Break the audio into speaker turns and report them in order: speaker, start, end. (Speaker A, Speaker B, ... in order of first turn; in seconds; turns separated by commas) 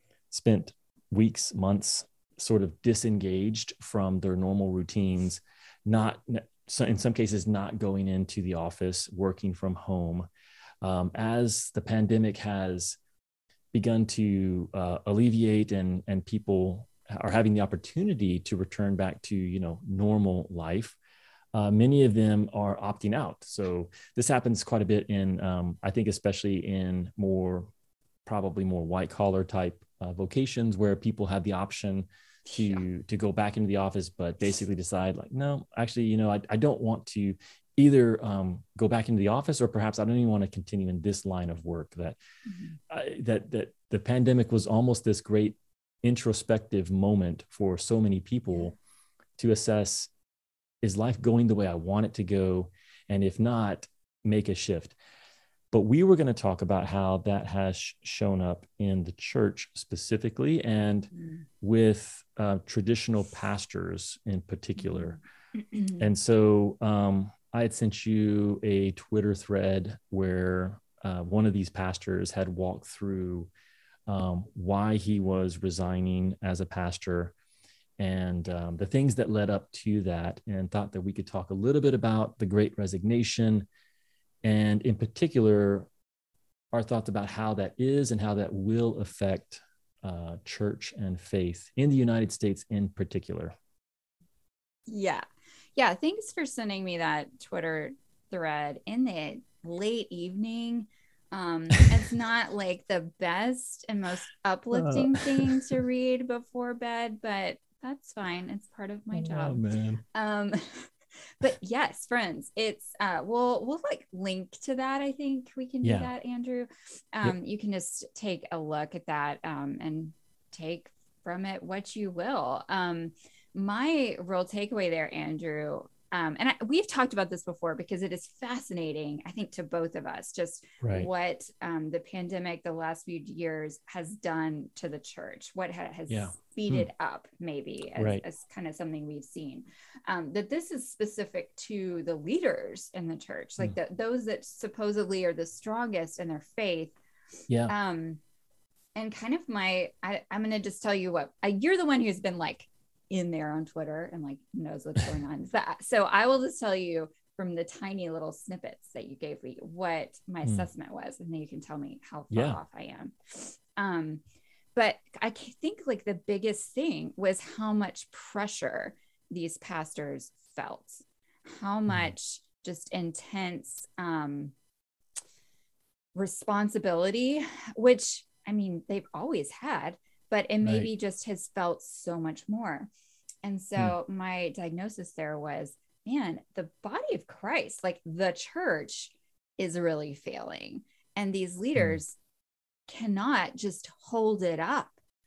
Speaker A: 0.3-10.3, Speaker A: 10.8-13.0, Speaker A: 13.7-21.0, Speaker A: 21.5-27.7, Speaker A: 28.2-42.2, Speaker B: 32.5-32.8, Speaker B: 42.5-42.8, Speaker A: 42.9-48.7, Speaker A: 49.4-50.1, Speaker A: 50.8-55.0, Speaker A: 55.7-65.2, Speaker B: 61.1-61.4, Speaker B: 64.8-66.1, Speaker A: 66.0-73.5, Speaker A: 74.1-77.3, Speaker A: 78.0-83.7, Speaker A: 84.4-85.9, Speaker A: 86.7-93.5, Speaker B: 94.9-95.2, Speaker B: 95.8-109.6, Speaker A: 104.7-105.8, Speaker A: 109.1-110.0, Speaker B: 110.1-147.0, Speaker A: 115.8-116.1, Speaker A: 130.8-131.1, Speaker A: 136.1-136.9, Speaker A: 138.0-138.2, Speaker B: 147.7-148.2, Speaker B: 148.9-164.2, Speaker A: 162.3-162.6, Speaker B: 164.8-174.5, Speaker B: 176.2-182.9, Speaker A: 180.6-180.9, Speaker B: 183.4-192.2, Speaker B: 192.9-195.0